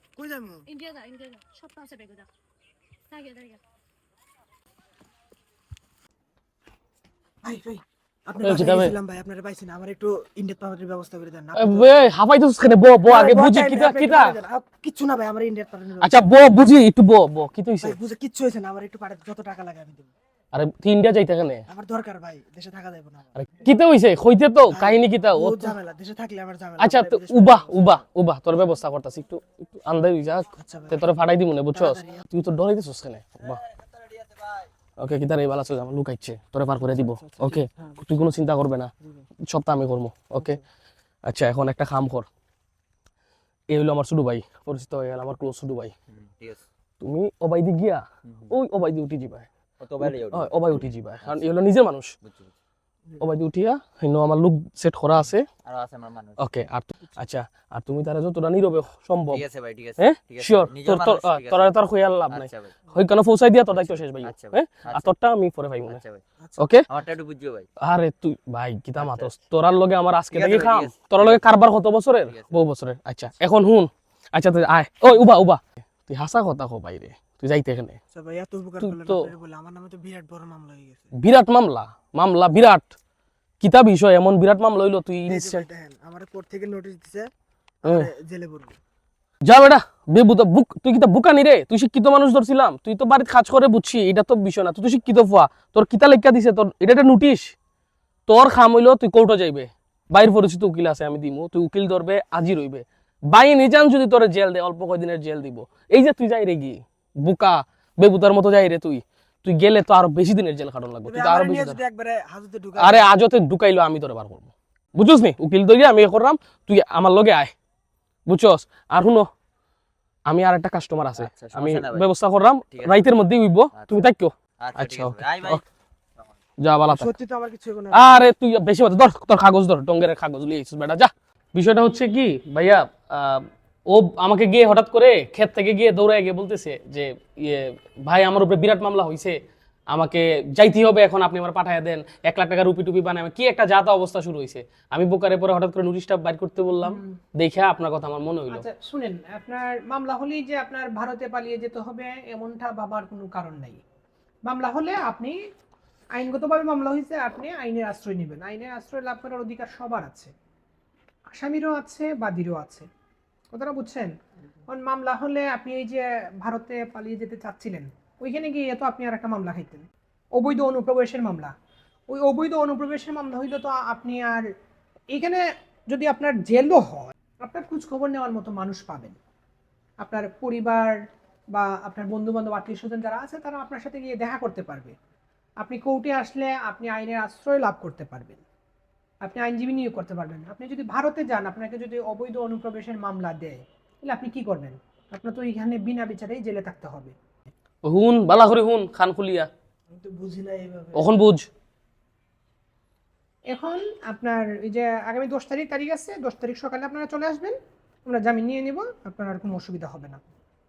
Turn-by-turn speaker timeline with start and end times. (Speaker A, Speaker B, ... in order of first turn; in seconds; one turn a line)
Speaker A: 0.2-0.7
Speaker B: 0.7-2.3
Speaker B: 3.1-3.6
Speaker A: 7.4-11.9
Speaker C: 8.4-9.0
Speaker C: 11.6-14.4
Speaker A: 13.0-16.2
Speaker C: 16.0-18.0
Speaker A: 17.8-20.1
Speaker C: 20.5-21.6
Speaker A: 21.7-23.3
Speaker C: 23.4-25.8
Speaker A: 24.7-27.9
Speaker C: 26.8-33.6
Speaker A: 30.5-31.0
Speaker A: 31.7-32.2
Speaker C: 35.0-38.9
Speaker A: 36.8-38.0
Speaker C: 39.5-40.6
Speaker C: 41.2-42.2
Speaker C: 43.7-45.9
Speaker D: 46.1-46.6
Speaker C: 47.0-49.5
Speaker D: 48.2-48.5
Speaker D: 49.8-51.6
Speaker C: 50.0-52.2
Speaker D: 52.2-52.5
Speaker C: 53.2-55.5
Speaker D: 55.6-56.6
Speaker C: 56.4-59.5
Speaker D: 59.3-61.7
Speaker C: 60.0-66.0
Speaker D: 62.3-62.8
Speaker D: 63.8-65.1
Speaker D: 65.8-66.2
Speaker A: 66.4-66.7
Speaker C: 66.6-66.8
Speaker D: 66.9-67.7
Speaker C: 67.8-78.0
Speaker D: 69.0-69.3
Speaker D: 70.3-71.5
Speaker D: 72.2-72.6
Speaker A: 78.1-81.1
Speaker C: 78.8-79.3
Speaker C: 81.2-82.9
Speaker C: 83.6-85.6
Speaker A: 85.2-87.3
Speaker A: 87.8-88.8
Speaker C: 87.8-88.1
Speaker C: 89.4-97.5
Speaker C: 98.3-111.8
Speaker A: 111.0-113.1
Speaker C: 112.8-117.5
Speaker C: 118.3-119.3
Speaker C: 120.2-125.6
Speaker D: 121.1-122.1
Speaker D: 122.7-123.2
Speaker D: 123.7-125.6
Speaker C: 126.6-127.1
Speaker A: 126.9-128.2
Speaker C: 127.9-148.7
Speaker E: 146.8-147.2
Speaker E: 148.5-153.8
Speaker E: 154.4-155.4
Speaker E: 156.1-160.3
Speaker E: 161.3-162.9
Speaker E: 163.5-164.2
Speaker E: 164.7-171.5
Speaker E: 172.1-174.5
Speaker E: 175.1-179.2
Speaker E: 180.0-181.0
Speaker E: 181.5-184.9
Speaker E: 185.6-188.4
Speaker E: 189.2-197.2
Speaker C: 197.8-199.5
Speaker A: 199.9-201.1
Speaker C: 200.9-201.5
Speaker E: 203.5-210.2